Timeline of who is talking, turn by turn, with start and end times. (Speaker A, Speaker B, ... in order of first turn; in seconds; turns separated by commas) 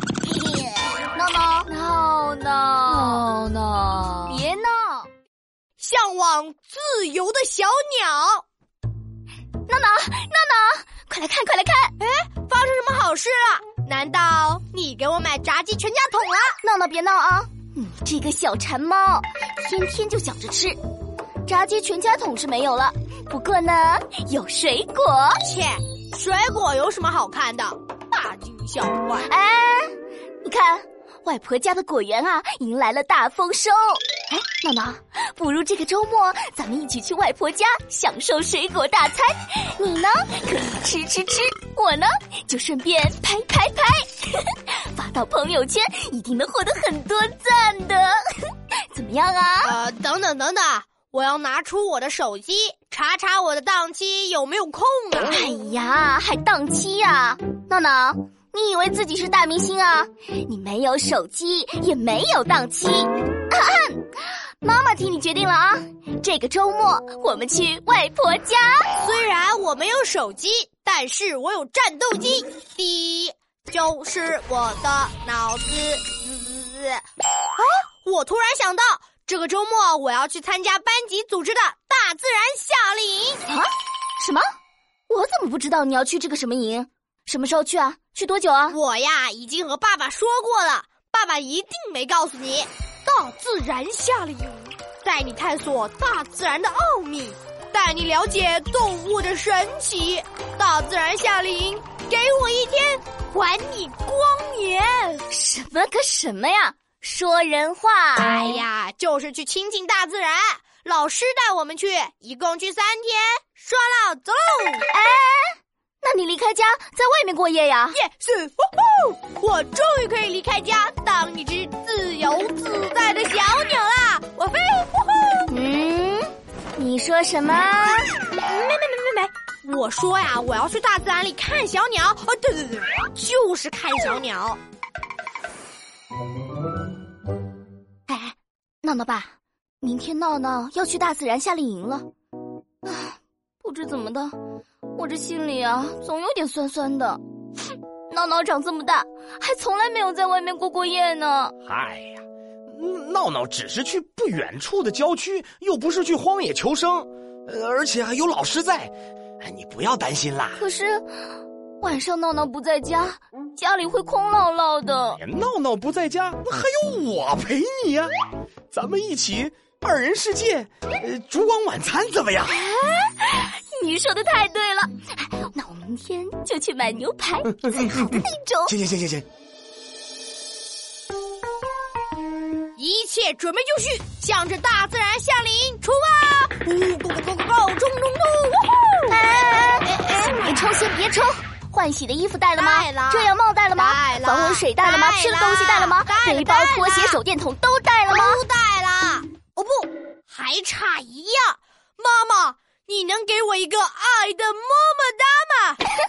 Speaker A: 0.2-5.1, Speaker B: 5.8-8.4, Speaker A: 9.7-11.9, Speaker B: 12.0-16.6, Speaker A: 16.6-20.8, Speaker A: 21.4-25.4, Speaker B: 25.4-29.3, Speaker A: 29.2-29.9, Speaker A: 30.4-48.2, Speaker A: 48.9-49.8, Speaker B: 49.6-55.4, Speaker A: 55.2-64.1, Speaker A: 64.6-68.9, Speaker B: 69.0-77.0, Speaker B: 77.6-83.4, Speaker A: 83.5-84.5, Speaker A: 85.1-88.8, Speaker B: 88.7-105.2, Speaker A: 105.3-108.6, Speaker B: 108.2-114.8, Speaker A: 114.9-118.0, Speaker B: 117.9-125.5, Speaker A: 125.5-128.1, Speaker B: 128.3-134.6, Speaker A: 138.1-142.1, Speaker A: 142.8-144.3, Speaker A: 144.9-147.2, Speaker A: 148.1-151.5, Speaker C: 151.7-160.6, Speaker A: 160.6-161.1, Speaker A: 161.8-165.2, Speaker C: 165.2-168.1, Speaker C: 168.7-172.6, Speaker A: 172.5-178.8, Speaker C: 178.7-179.2, Speaker B: 182.8-190.5, Speaker A: 189.1-198.4, Speaker B: 192.6-197.2, Speaker B: 198.1-205.8